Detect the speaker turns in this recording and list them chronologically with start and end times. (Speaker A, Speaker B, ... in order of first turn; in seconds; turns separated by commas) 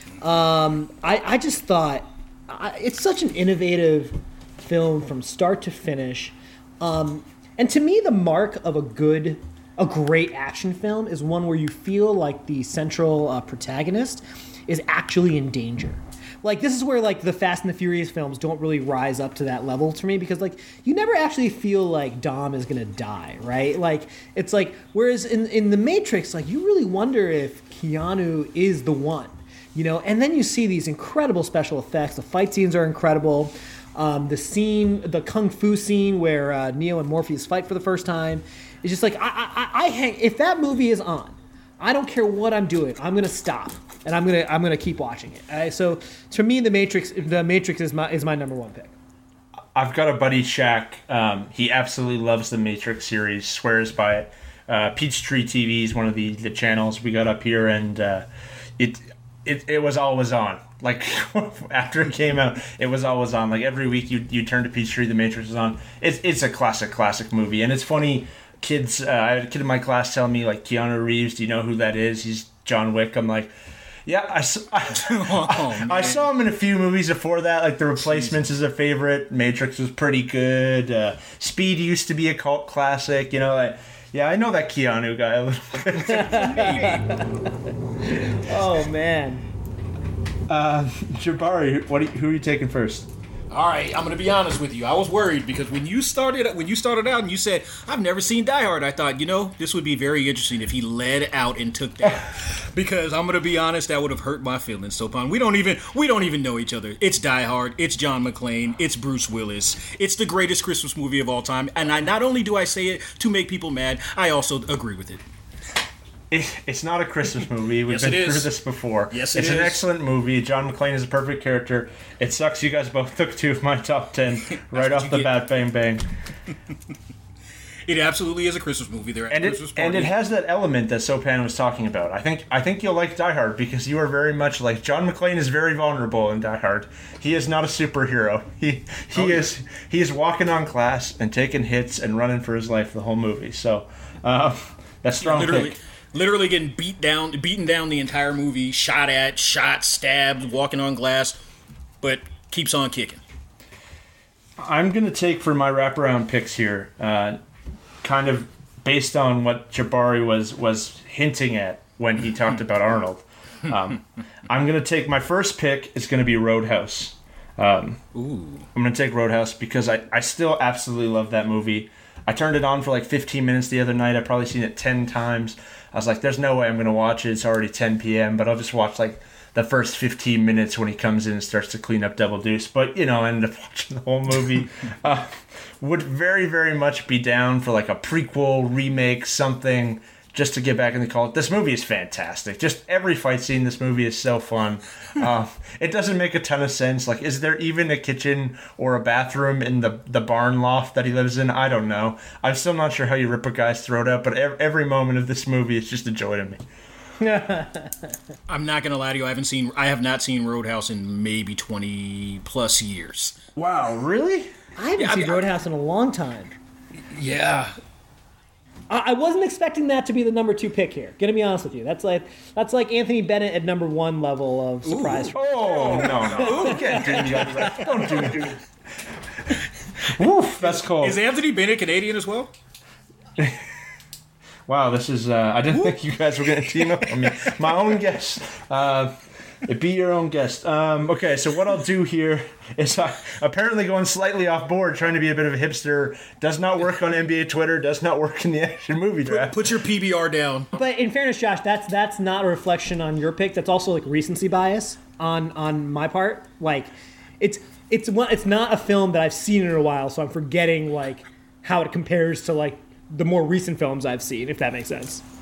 Speaker A: 0.2-48.9, Speaker B: 49.7-58.2, Speaker B: 58.8-73.5, Speaker B: 74.0-86.5, Speaker C: 74.9-76.3, Speaker A: 86.0-89.4, Speaker C: 86.1-87.1, Speaker B: 90.5-93.1, Speaker C: 93.5-115.2, Speaker B: 116.3-126.0, Speaker C: 117.9-118.5, Speaker C: 119.1-119.8, Speaker C: 124.5-125.3, Speaker C: 127.8-130.1, Speaker B: 129.3-145.8, Speaker C: 139.2-139.4, Speaker C: 145.2-151.4, Speaker C: 152.0-153.2, Speaker B: 154.6-157.4, Speaker B: 158.0-168.0, Speaker C: 168.1-168.7, Speaker B: 168.7-206.6, Speaker A: 207.2-208.1, Speaker C: 208.5-213.4, Speaker B: 213.6-214.5, Speaker A: 214.8-216.6, Speaker C: 215.0-215.4, Speaker C: 217.1-217.8, Speaker A: 218.9-228.2, Speaker C: 224.8-227.2, Speaker B: 225.3-228.6, Speaker B: 230.0-231.2, Speaker C: 230.7-232.5, Speaker B: 234.7-239.1, Speaker C: 236.8-237.5, Speaker B: 239.6-249.6, Speaker C: 249.2-250.7, Speaker A: 250.7-265.2